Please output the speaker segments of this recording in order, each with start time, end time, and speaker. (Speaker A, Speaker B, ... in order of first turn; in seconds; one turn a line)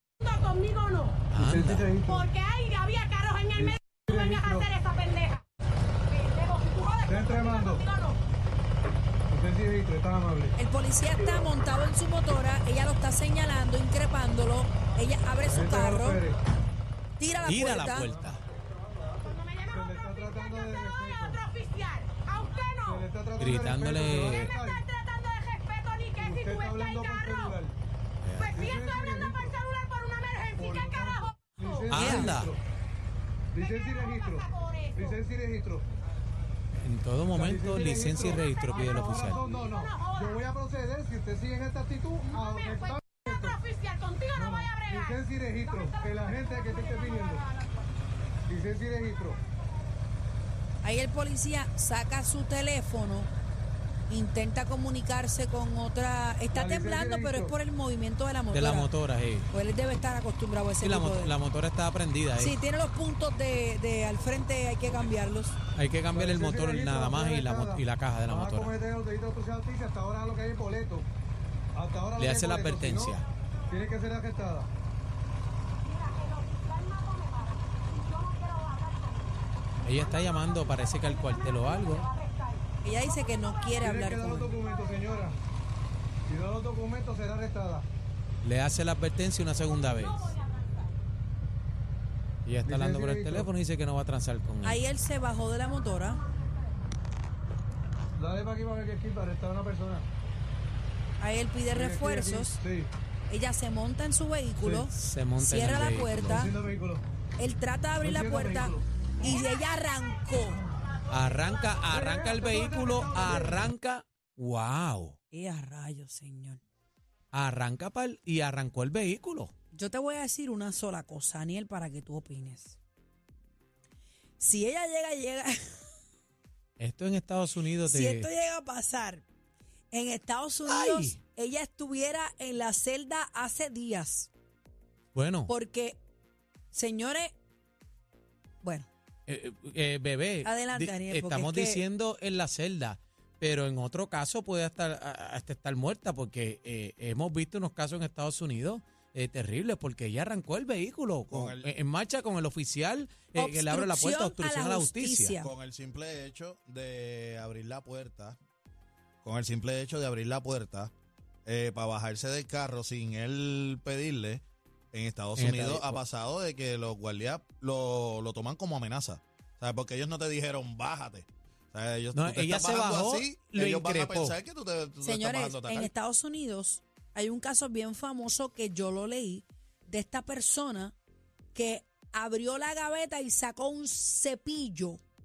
Speaker A: 0.3-1.1
Speaker B: 1.3-1.9
Speaker C: 1.4-2.3
Speaker A: 2.2-3.6
Speaker C: 3.5-4.7
Speaker A: 4.3-5.4
Speaker A: 6.4-8.2
Speaker C: 7.0-7.9
Speaker C: 9.3-10.6
Speaker D: 10.6-16.2
Speaker C: 15.5-16.4
Speaker D: 17.2-18.1
Speaker B: 17.5-18.4
Speaker A: 19.3-23.0
Speaker C: 19.7-21.5
Speaker C: 22.9-24.9
Speaker B: 23.4-24.6
Speaker A: 24.8-27.5
Speaker C: 26.1-27.8
Speaker B: 28.2-28.7
Speaker A: 28.4-31.9
Speaker C: 28.5-29.6
Speaker C: 30.5-32.6
Speaker B: 31.9-32.5
Speaker D: 32.0-32.4
Speaker C: 33.5-35.9
Speaker A: 33.8-35.0
Speaker B: 36.8-39.4
Speaker C: 37.3-43.6
Speaker A: 39.5-40.3
Speaker A: 42.3-42.9
Speaker A: 43.5-45.2
Speaker C: 44.3-47.5
Speaker A: 45.8-47.7
Speaker C: 48.5-49.4
Speaker D: 50.8-53.3
Speaker D: 54.1-58.9
Speaker C: 56.5-57.5
Speaker B: 58.5-59.5
Speaker D: 59.5-61.4
Speaker B: 60.8-62.5
Speaker D: 62.4-65.6
Speaker B: 65.8-68.7
Speaker C: 66.1-71.1
Speaker C: 71.7-73.2
Speaker B: 72.2-73.2
Speaker C: 73.7-74.7
Speaker A: 75.9-79.4
Speaker B: 79.8-82.1
Speaker D: 82.8-84.6
Speaker C: 83.8-85.4
Speaker C: 86.3-87.9
Speaker B: 88.4-90.3
Speaker B: 92.5-94.8
Speaker C: 92.7-93.5
Speaker D: 94.6-96.2
Speaker C: 98.2-100.1
Speaker D: 101.2-102.6
Speaker C: 101.7-102.9
Speaker D: 103.3-106.5
Speaker C: 104.6-104.9
Speaker B: 104.9-106.4
Speaker C: 106.2-107.0
Speaker D: 107.4-110.6
Speaker C: 108.0-108.9
Speaker B: 111.1-115.2
Speaker C: 111.9-113.6
Speaker D: 115.3-116.6
Speaker B: 117.3-119.5
Speaker D: 119.7-122.8
Speaker D: 124.4-125.9
Speaker B: 126.8-128.3
Speaker D: 127.8-129.2
Speaker D: 129.9-134.3
Speaker B: 130.7-131.2
Speaker B: 135.1-135.5
Speaker D: 135.5-136.0
Speaker D: 136.7-137.4
Speaker D: 138.6-138.9
Speaker B: 139.3-155.4
Speaker D: 140.4-141.8
Speaker E: 151.3-151.7
Speaker D: 153.3-155.5
Speaker E: 155.4-158.4
Speaker E: 159.2-160.9
Speaker E: 161.5-164.4
Speaker E: 164.9-175.9
Speaker B: 165.4-166.0
Speaker B: 172.1-174.4
Speaker D: 175.0-181.0
Speaker D: 181.6-185.0